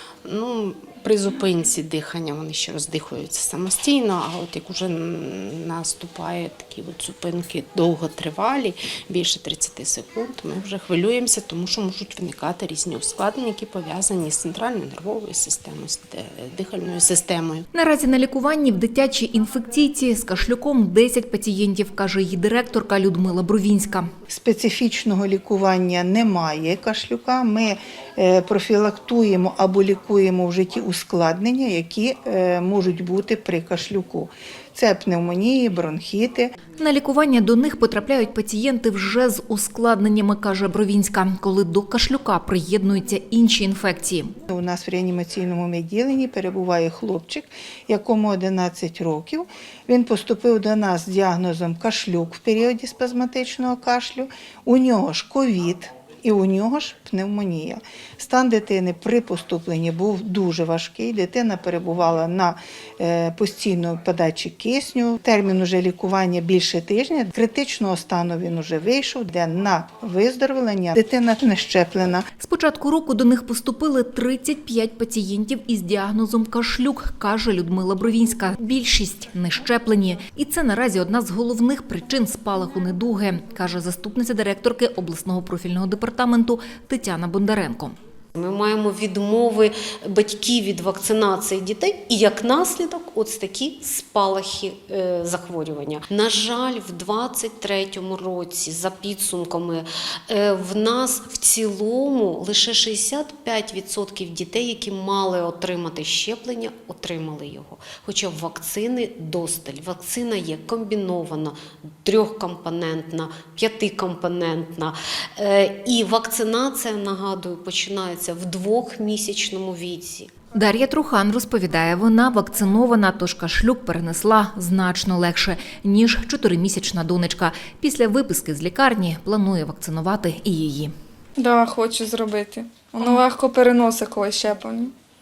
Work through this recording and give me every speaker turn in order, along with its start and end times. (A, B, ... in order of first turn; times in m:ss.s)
0:00.2-0:17.6 A
0:17.7-0:24.1 B
0:24.3-0:36.5 C
0:36.8-0:44.3 B
0:44.5-1:12.2 C
1:12.4-1:28.0 B
1:28.4-2:00.3 D
2:00.5-2:10.9 B
2:11.4-2:14.9 E